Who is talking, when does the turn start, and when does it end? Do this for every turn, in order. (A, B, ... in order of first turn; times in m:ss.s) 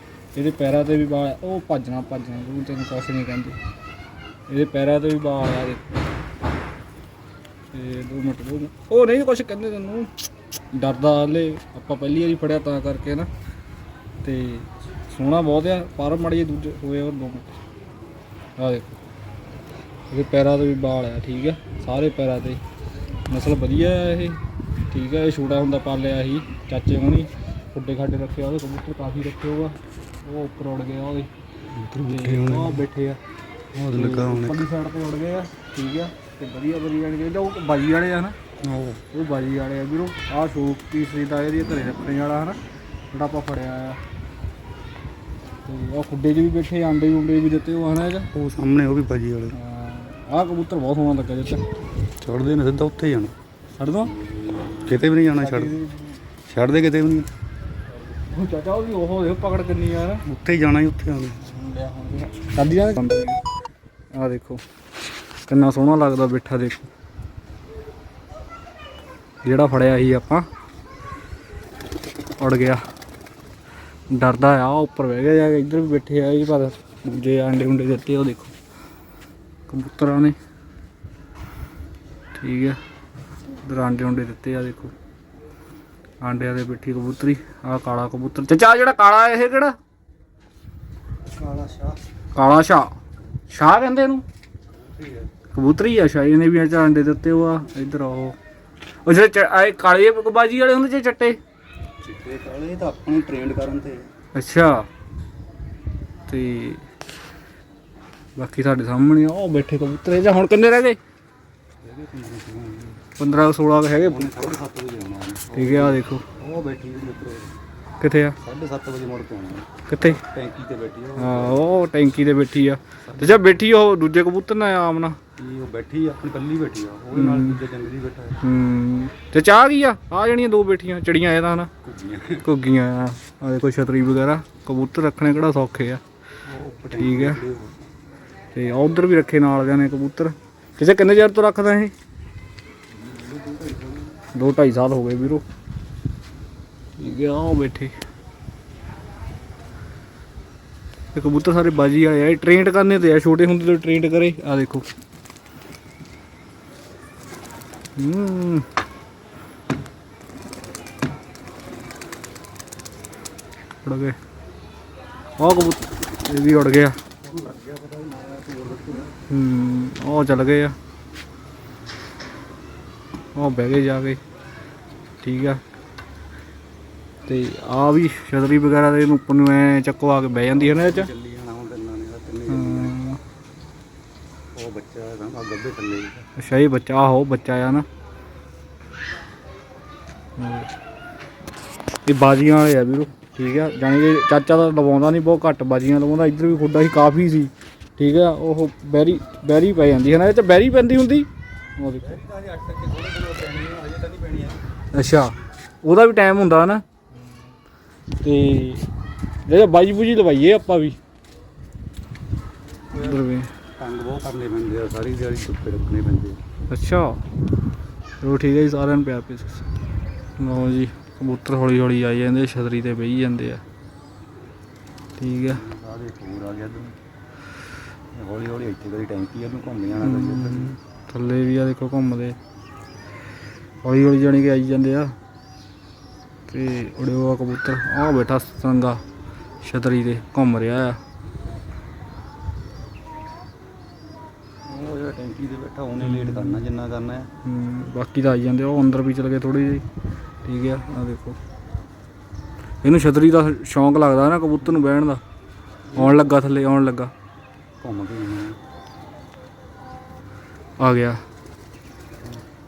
0:00.3-0:03.6 A
0:04.5-0:06.0 A
0:07.7-0:13.3 A
0:14.2-0:17.6 A
0:18.6-0:18.9 A
0:20.1-0:22.6 A
0:23.3-0:31.3 A
0:31.7-0:32.8 B
0:32.1-0:33.2 A
0:33.7-0:34.6 B
0:33.9-0:38.4 A
0:38.6-0:39.0 B
0:39.1-0:42.6 A
0:43.1-0:44.0 A
0:45.6-0:48.3 A
0:48.3-0:49.6 B
0:49.5-0:51.6 A
0:52.2-0:53.3 B
0:53.8-0:54.2 A
0:54.1-0:55.7 B
0:55.4-0:56.2 A
0:56.4-0:57.3 B
0:58.1-1:00.2 A
1:00.2-1:01.5 B
1:01.4-1:03.4 A
1:04.1-1:04.6 A
1:05.4-1:06.9 A
1:09.4-1:10.5 A
1:12.4-1:12.8 A
1:14.1-1:18.5 A
1:19.7-1:20.4 A
1:22.4-1:22.8 A
1:23.6-1:24.9 A
1:26.2-1:29.8 A
1:31.3-1:32.0 B
1:32.3-1:32.9 A
1:33.5-1:34.2 A
1:34.7-1:35.3 B
1:35.5-1:38.4 A
1:39.0-1:41.4 A
1:42.0-1:44.1 B
1:44.3-1:44.9 A
1:46.3-1:46.8 A
1:48.4-1:51.0 A
1:51.8-1:53.0 B
1:53.2-1:54.6 A
1:54.0-1:57.6 B
1:55.5-1:56.2 A
1:58.0-1:58.4 A
1:58.4-2:01.6 B
1:59.9-2:00.2 A
2:01.2-2:05.2 A
2:03.0-2:03.6 B
2:05.4-2:08.4 B
2:07.1-2:07.6 A
2:08.4-2:11.7 A
2:11.8-2:12.5 B
2:12.4-2:16.0 A
2:16.4-2:17.8 B
2:16.9-2:17.4 A
2:18.5-2:21.9 A
2:23.0-2:24.1 B
2:24.3-2:25.4 A
2:27.0-2:27.9 A
2:31.1-2:34.8 A
2:38.0-2:38.7 A
2:43.8-2:44.2 A
2:45.4-2:47.0 A
2:47.2-2:49.2 B
2:49.3-2:50.7 A
2:53.3-2:54.2 A
2:55.2-2:55.6 A
2:57.3-3:01.1 A
3:00.5-3:03.0 B
3:02.5-3:03.2 A
3:04.5-3:06.2 B
3:06.4-3:07.9 A
3:10.4-3:10.7 A
3:12.0-3:22.2 A
3:22.0-3:24.6 B
3:24.9-3:26.8 A
3:28.2-3:28.9 A
3:29.4-3:31.0 A
3:32.9-3:33.2 B
3:32.9-3:33.5 A
3:33.8-3:36.4 B
3:36.7-3:37.2 A
3:38.2-3:39.6 A
3:40.4-3:43.6 A
3:45.2-3:45.6 A
3:45.4-3:47.0 B
3:48.1-3:50.8 B
3:50.0-3:52.4 A
3:53.8-3:55.1 A
3:56.5-3:59.0 A
3:59.6-4:01.0 A
4:04.6-4:07.3 B
4:06.0-4:06.6 A
4:07.4-4:09.8 A
4:10.4-4:11.4 A
4:12.8-4:15.2 A
4:15.9-4:16.3 B
4:15.9-4:17.1 A
4:17.8-4:18.6 B
4:20.8-4:21.2 A